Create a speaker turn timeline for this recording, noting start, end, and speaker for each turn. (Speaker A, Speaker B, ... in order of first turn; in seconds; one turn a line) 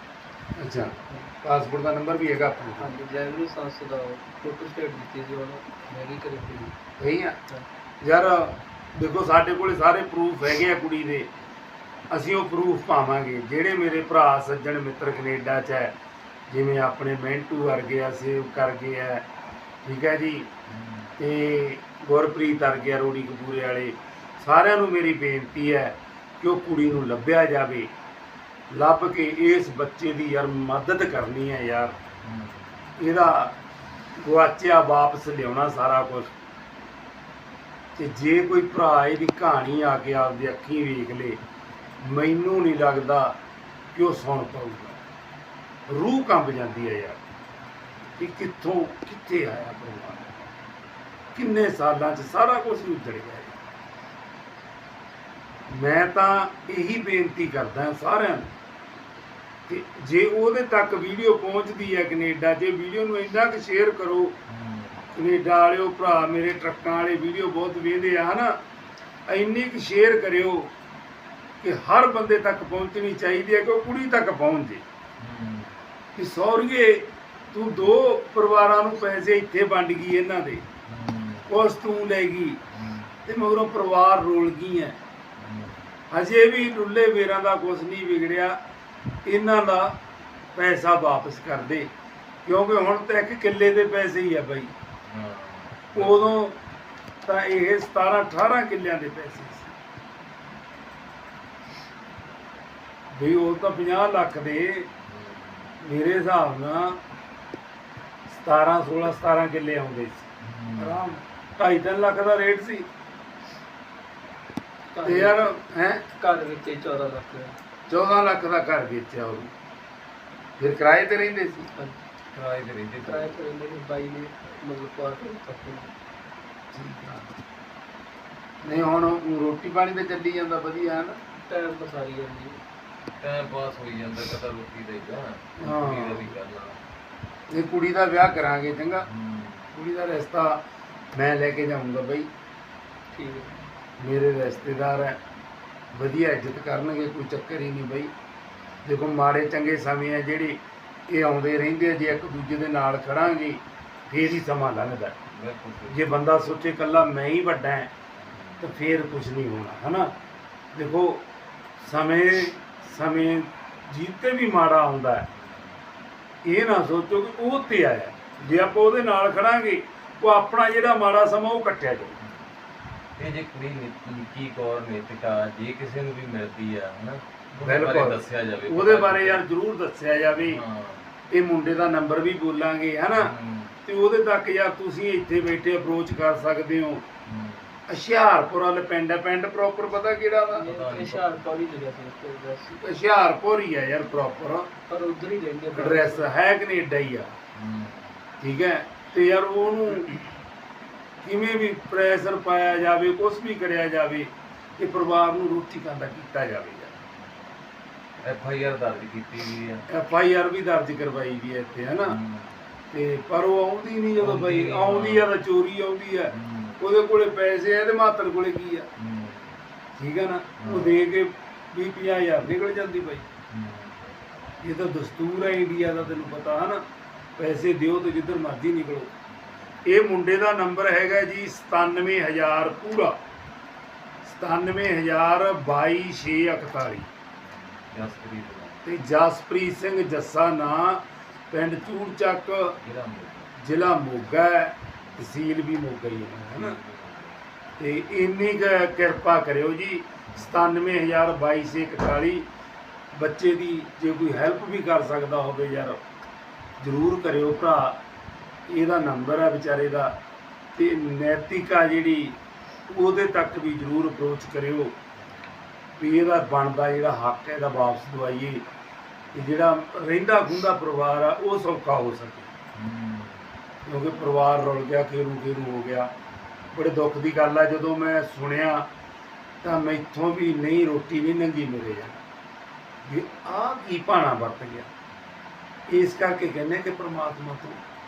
Speaker A: 0.6-2.9
Speaker B: 2.8-6.7
Speaker A: 7.0-7.3
Speaker A: 8.0-11.3
Speaker A: 12.1-15.9
Speaker A: 16.5-19.2
Speaker A: 19.8-20.5
Speaker C: 20.7-21.1
Speaker A: 21.2-27.9
Speaker A: 28.7-31.9
Speaker C: 32.2-32.7
Speaker A: 33.0-33.5
Speaker A: 34.2-36.3
Speaker A: 38.0-41.4
Speaker A: 42.0-43.3
Speaker A: 43.9-45.0
Speaker A: 45.9-47.2
Speaker A: 48.2-50.3
Speaker A: 51.3-53.5
Speaker A: 55.7-58.5
Speaker A: 59.7-64.4
Speaker C: 64.5-65.1
Speaker A: 65.1-68.5
Speaker A: 69.3-70.7
Speaker A: 71.6-74.8
Speaker C: 75.2-75.7
Speaker A: 76.2-80.6
Speaker C: 80.8-81.5
Speaker A: 81.5-82.6
Speaker C: 82.7-83.1
Speaker A: 83.2-85.0
Speaker C: 85.4-85.8
Speaker A: 86.1-88.6
Speaker A: 89.2-90.0
Speaker A: 90.5-91.9
Speaker A: 92.4-94.7
Speaker C: 95.1-96.4
Speaker A: 95.9-96.6
Speaker A: 97.2-99.7
Speaker A: 103.1-104.9
Speaker C: 105.1-105.7
Speaker A: 105.8-107.0
Speaker A: 108.3-112.8
Speaker C: 110.4-111.1
Speaker B: 114.9-115.6
Speaker A: 115.0-116.0
Speaker B: 116.2-117.6
Speaker A: 117.9-119.5
Speaker A: 120.6-121.7
Speaker C: 122.3-123.4
Speaker B: 123.0-125.9
Speaker A: 126.7-127.3
Speaker A: 128.6-131.2
Speaker B: 131.5-132.6
Speaker C: 133.2-136.8
Speaker A: 135.6-136.3
Speaker A: 137.5-139.1
Speaker C: 139.1-139.7
Speaker A: 139.7-140.6
Speaker A: 141.1-142.3
Speaker B: 143.1-143.5
Speaker A: 144.0-145.2
Speaker A: 145.9-148.1
Speaker A: 148.8-155.1
Speaker C: 155.3-156.1
Speaker A: 155.9-157.9
Speaker C: 158.2-158.7
Speaker A: 158.6-160.1
Speaker A: 160.7-161.2
Speaker A: 161.8-165.3
Speaker C: 165.3-165.7
Speaker A: 166.4-172.2
Speaker C: 173.2-179.4
Speaker A: 177.6-180.6
Speaker C: 180.4-181.0
Speaker A: 181.3-183.3
Speaker C: 183.1-183.8
Speaker A: 183.8-187.0
Speaker C: 187.2-187.7
Speaker A: 187.9-190.7
Speaker B: 190.6-192.8
Speaker C: 190.7-191.4
Speaker A: 192.8-194.7
Speaker B: 194.9-196.3
Speaker A: 195.7-197.3
Speaker C: 197.5-198.2
Speaker A: 198.4-200.2
Speaker A: 201.2-206.9
Speaker C: 208.2-209.8
Speaker A: 209.9-212.2
Speaker C: 212.0-212.6
Speaker A: 212.9-218.9
Speaker C: 214.2-215.3
Speaker C: 216.3-216.8
Speaker C: 219.0-219.6
Speaker A: 220.0-223.3
Speaker C: 220.6-221.1
Speaker C: 223.5-224.0
Speaker A: 224.6-226.8
Speaker A: 227.4-229.1
Speaker A: 229.9-233.1
Speaker A: 234.2-237.1
Speaker C: 237.9-238.8
Speaker A: 238.8-242.7
Speaker C: 242.8-243.5
Speaker A: 243.6-246.8
Speaker C: 246.5-247.4
Speaker A: 247.8-252.4
Speaker C: 250.3-250.6
Speaker A: 253.1-256.0
Speaker A: 256.8-258.0
Speaker A: 258.7-260.1
Speaker A: 260.7-262.4
Speaker A: 262.9-264.9
Speaker A: 266.0-268.6
Speaker A: 269.3-272.5
Speaker C: 272.7-273.4
Speaker A: 273.9-276.1
Speaker A: 276.7-278.8
Speaker A: 279.6-282.2
Speaker A: 283.0-284.9
Speaker A: 285.9-287.8